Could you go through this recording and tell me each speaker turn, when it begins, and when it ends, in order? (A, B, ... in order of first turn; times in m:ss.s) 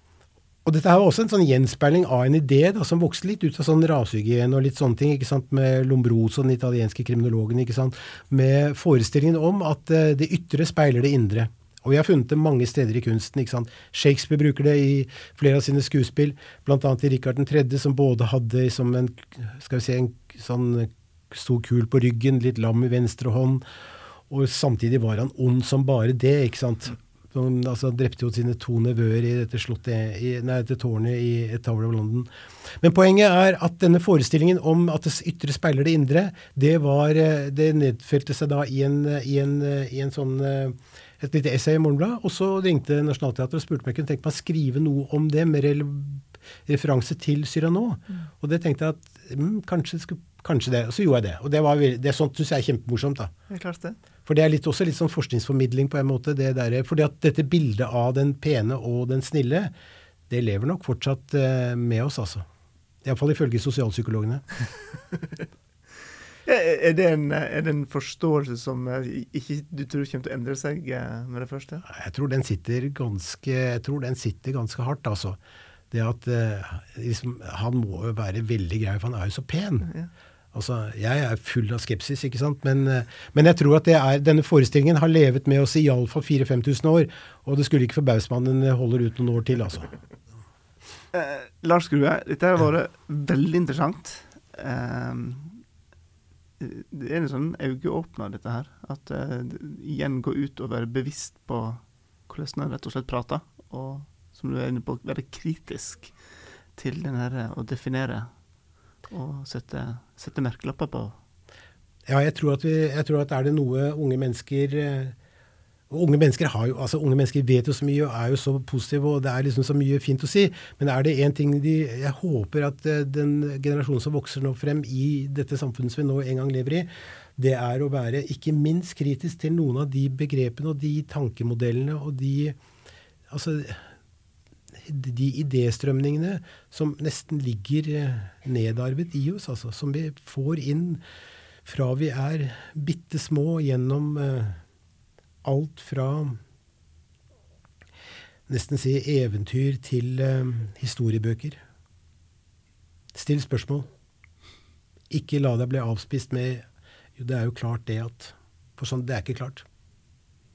0:00.6-0:23.6 A
0:24.3-0:53.3 A
0:53.5-0:54.0 B
0:54.3-0:59.7 A
1:00.3-1:02.5 A
1:03.0-1:04.4 A
1:06.5-1:11.8 B
1:11.9-1:15.4 A
1:15.9-1:19.9 A
1:20.5-1:29.9 A
1:31.1-1:35.6 B
1:36.6-1:46.2 B
1:46.8-1:48.3 B
1:49.1-1:51.2 B
1:52.1-1:55.2 A
1:55.9-2:12.6 A
2:13.3-2:13.9 A
2:14.8-2:21.0 A
2:21.6-2:24.6 A
2:25.4-2:26.4 A
2:28.5-2:31.6 A
2:33.1-2:33.9 A
2:35.1-2:36.6 A
2:37.2-2:39.7 A